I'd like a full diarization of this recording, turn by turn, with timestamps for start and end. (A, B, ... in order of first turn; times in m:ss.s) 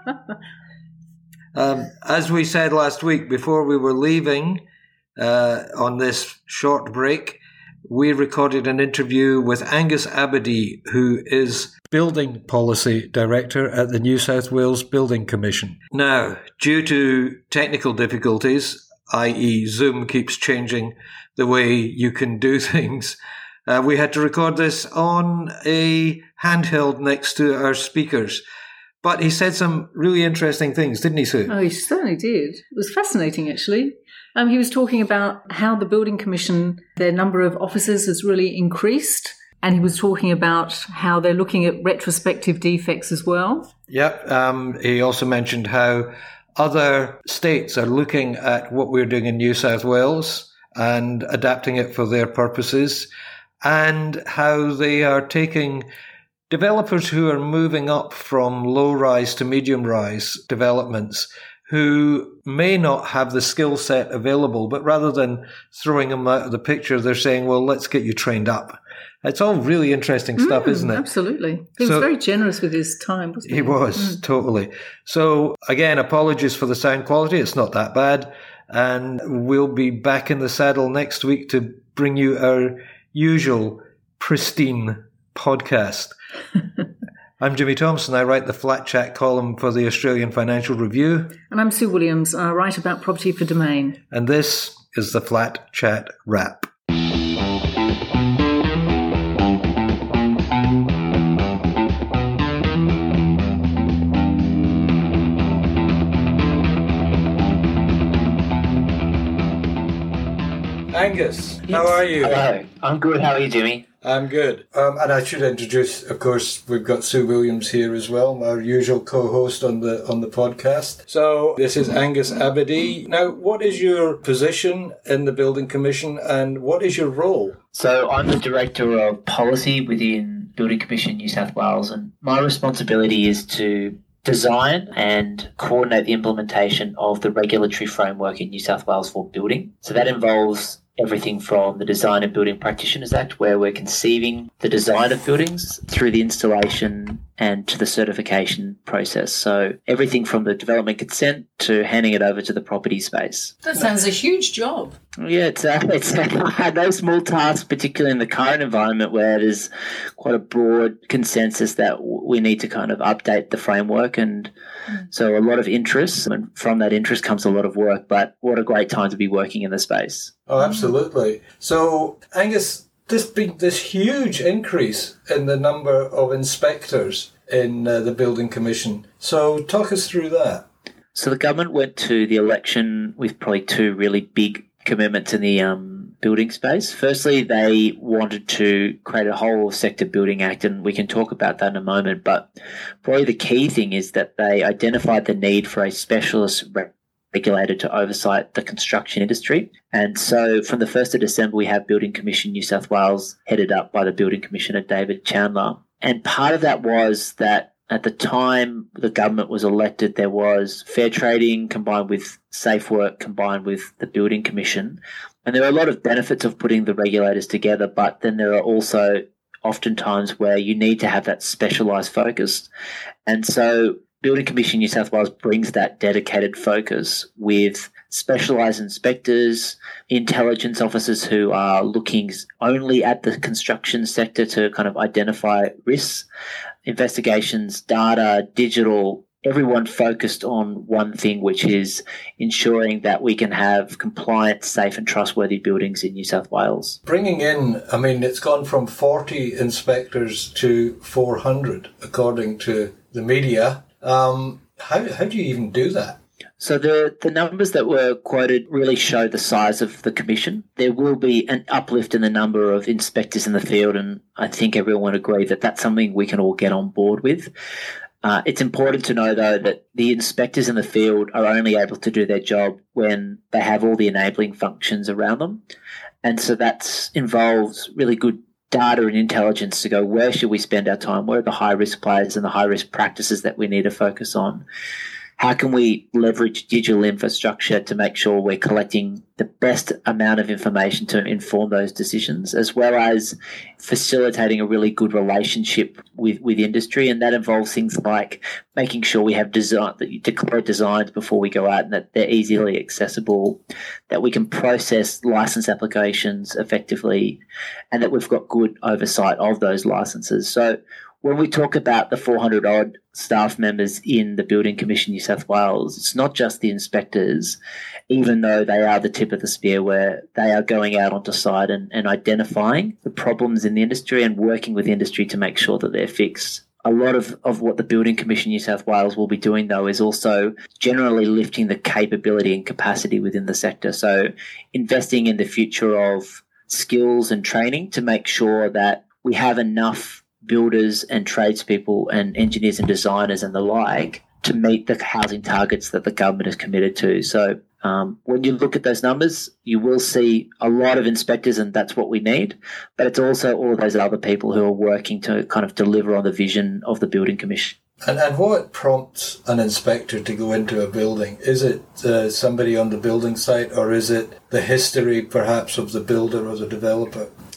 0:01.5-0:04.6 A
0:05.2-0:28.4 A
0:29.0-0:31.5 A
0:31.5-0:43.7 B
0:43.9-0:53.1 A
0:53.6-0:55.8 A
0:56.5-1:11.1 A
1:10.4-1:14.2 B
1:11.8-1:12.2 A
1:13.4-1:26.2 A
1:27.4-1:31.4 A
1:31.5-1:34.0 B
1:34.1-1:36.7 A
1:50.9-1:52.4 A
1:51.7-1:53.8 C
1:54.0-2:07.6 A
2:07.7-2:33.5 C
2:33.6-2:35.0 B
2:35.2-2:44.5 C
2:45.1-2:50.3 C
2:50.5-3:00.7 A
3:01.1-3:12.4 C
3:13.0-3:42.7 C
3:43.2-3:56.2 C
3:56.8-4:07.0 C
4:07.0-4:16.2 A
4:16.6-4:27.5 C
4:28.2-4:35.6 C
4:36.2-4:44.6 C
4:45.4-5:07.4 C
5:07.9-5:17.6 C
5:18.1-5:57.8 C
5:58.0-6:07.3 A